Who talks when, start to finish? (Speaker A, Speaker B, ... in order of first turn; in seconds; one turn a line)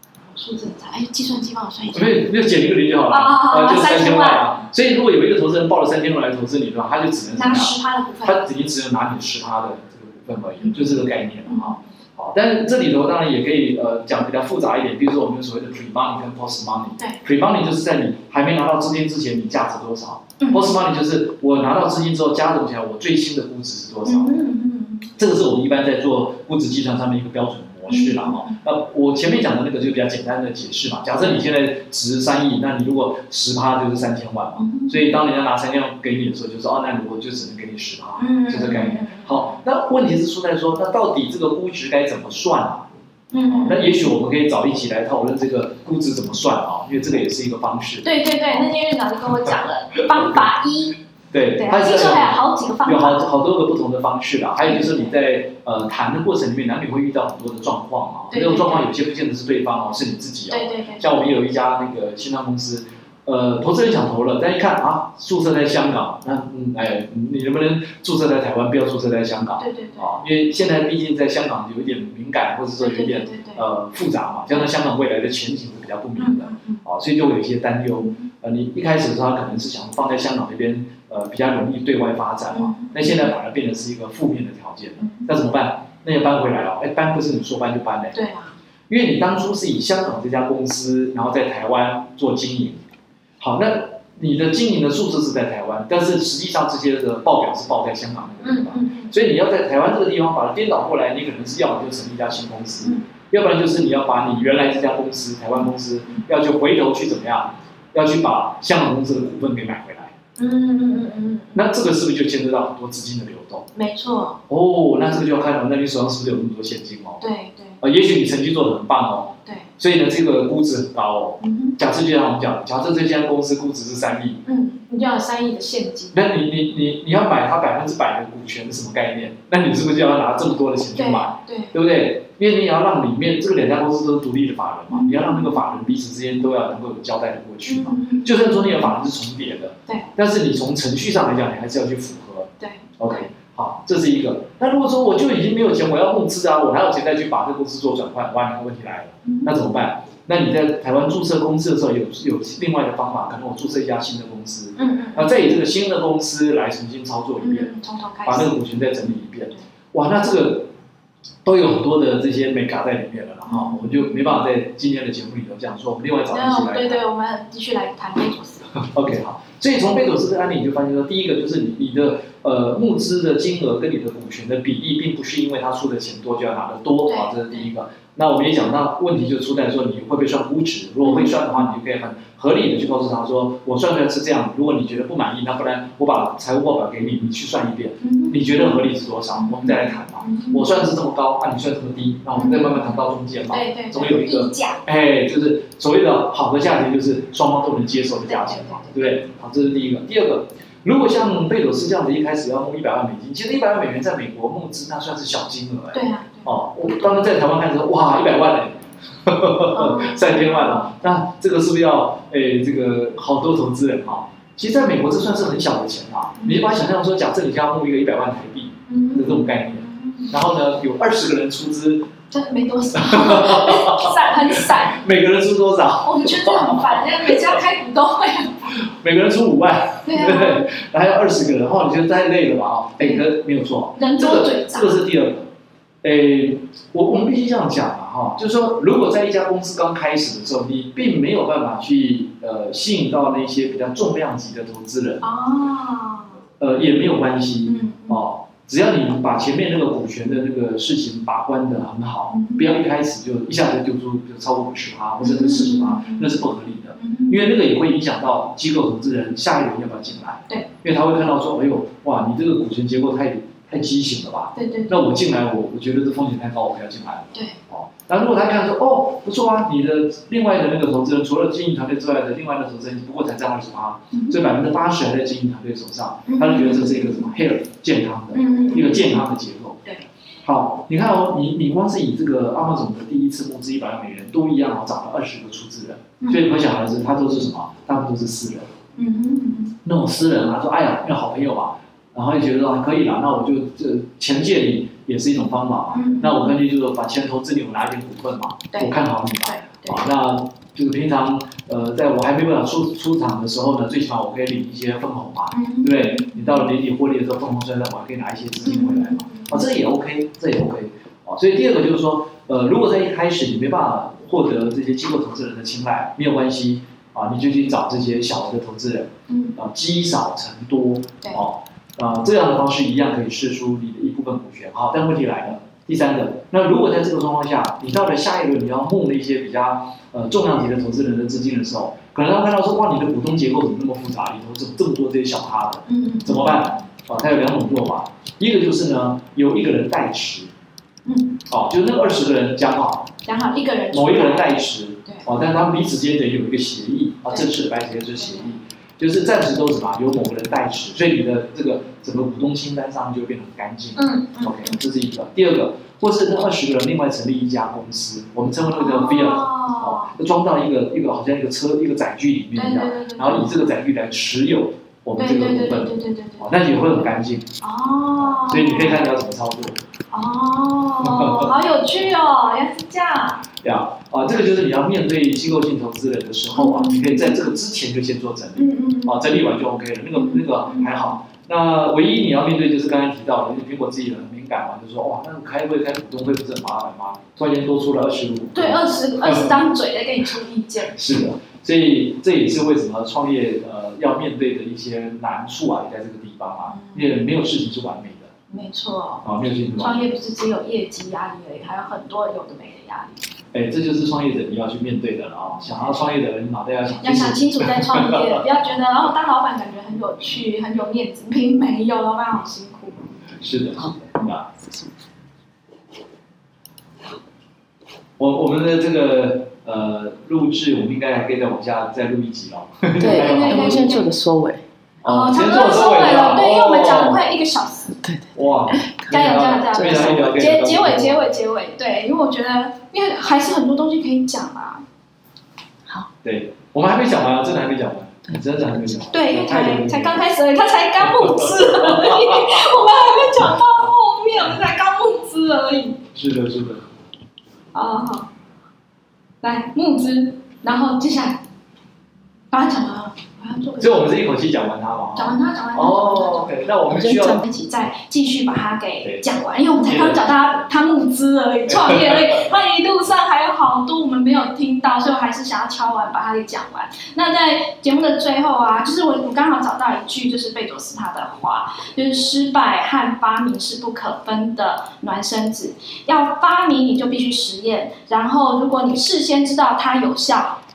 Speaker A: 0.3-2.3
Speaker B: 1.9-24.3
Speaker A: 3.1-4.5
Speaker A: 7.3-8.4
Speaker A: 10.6-10.9
Speaker A: 11.5-11.8
Speaker A: 20.4-20.8
Speaker A: 24.1-25.1
Speaker B: 25.2-42.9
Speaker A: 27.9-28.6
Speaker A: 34.6-35.2
Speaker A: 38.2-39.6
Speaker A: 43.3-44.0
Speaker B: 43.5-48.7
Speaker A: 48.0-51.0
Speaker B: 50.0-50.5
Speaker B: 51.3-88.2
Speaker A: 51.6-53.3
Speaker A: 54.6-55.1
Speaker A: 58.3-58.9
Speaker A: 60.5-61.1
Speaker A: 69.6-70.2
Speaker A: 72.8-73.6
Speaker A: 76.2-76.8
Speaker A: 78.0-78.3
Speaker A: 82.5-83.3
Speaker A: 85.0-85.3
Speaker A: 88.1-88.5
Speaker B: 88.9-92.8
Speaker B: 93.4-110.1
Speaker A: 98.4-99.2
Speaker A: 110.4-111.6
Speaker B: 111.5-113.7
Speaker A: 113.7-114.4
Speaker B: 114.5-117.2
Speaker A: 117.2-117.8
Speaker B: 117.8-124.4
Speaker A: 121.4-121.8
Speaker A: 124.5-126.2
Speaker B: 126.1-157.7
Speaker A: 130.9-131.7
Speaker A: 134.9-135.6
Speaker A: 137.7-138.9
Speaker A: 142.6-143.3
Speaker A: 149.2-149.6
Speaker A: 154.8-155.6
Speaker A: 157.4-158.6
Speaker B: 158.2-160.7
Speaker B: 161.4-167.0
Speaker A: 163.5-164.4
Speaker A: 166.3-168.8
Speaker B: 168.8-222.1
Speaker A: 177.1-177.7
Speaker A: 181.0-181.6
Speaker A: 188.0-188.8
Speaker A: 189.4-190.9
Speaker A: 192.3-193.0
Speaker A: 193.5-194.8
Speaker A: 198.3-199.1
Speaker A: 205.9-206.5
Speaker A: 209.7-210.9
Speaker A: 216.4-216.7
Speaker A: 218.9-220.4
Speaker A: 222.3-225.0
Speaker B: 222.9-227.6
Speaker A: 226.0-228.8
Speaker B: 228.7-235.5
Speaker A: 230.0-230.7
Speaker A: 233.0-233.3
Speaker A: 233.9-235.0
Speaker B: 236.0-245.3
Speaker A: 245.2-246.4
Speaker B: 246.6-279.8
Speaker A: 247.7-248.2
Speaker A: 252.3-252.8
Speaker A: 255.2-256.4
Speaker A: 257.0-257.5
Speaker A: 264.6-265.0
Speaker A: 274.1-274.4
Speaker A: 276.3-277.3
Speaker A: 278.3-279.2
Speaker B: 280.4-288.7
Speaker A: 289.0-289.8
Speaker B: 289.8-340.5
Speaker A: 295.9-296.6
Speaker A: 298.7-300.1
Speaker A: 305.5-306.7
Speaker A: 308.6-309.7
Speaker A: 319.3-319.6
Speaker A: 335.9-336.9
Speaker A: 341.1-341.4
Speaker B: 341.5-343.1
Speaker A: 343.2-344.5
Speaker B: 343.9-367.5
Speaker A: 348.2-348.5
Speaker A: 354.0-354.8
Speaker A: 358.8-360.1
Speaker A: 362.6-363.7
Speaker A: 365.2-367.0
Speaker A: 367.6-369.0
Speaker B: 368.2-369.8
Speaker A: 370.1-373.5
Speaker B: 371.0-371.5
Speaker B: 373.6-389.6
Speaker A: 376.6-377.4
Speaker A: 378.6-379.3
Speaker A: 380.1-381.1
Speaker A: 388.5-391.0
Speaker B: 390.9-398.3
Speaker A: 396.7-397.2
Speaker A: 398.5-399.2
Speaker B: 399.2-400.0
Speaker A: 399.8-403.2
Speaker B: 403.5-408.4
Speaker A: 405.7-406.0
Speaker A: 406.9-413.1
Speaker B: 413.4-414.5
Speaker C: 414.6-414.9
Speaker B: 418.2-424.0
Speaker C: 423.0-424.6
Speaker A: 423.0-424.1
Speaker B: 425.0-427.2
Speaker A: 425.1-428.0
Speaker C: 428.0-430.2
Speaker B: 428.4-431.3
Speaker A: 429.1-434.8
Speaker B: 436.2-440.2
Speaker A: 439.1-446.0
Speaker B: 441.1-442.4
Speaker B: 446.1-446.8
Speaker A: 447.7-448.3
Speaker A: 449.4-451.4
Speaker A: 452.5-454.1
Speaker B: 453.8-457.4
Speaker A: 455.2-480.6
Speaker C: 456.9-457.3
Speaker B: 459.9-460.6
Speaker B: 461.7-462.4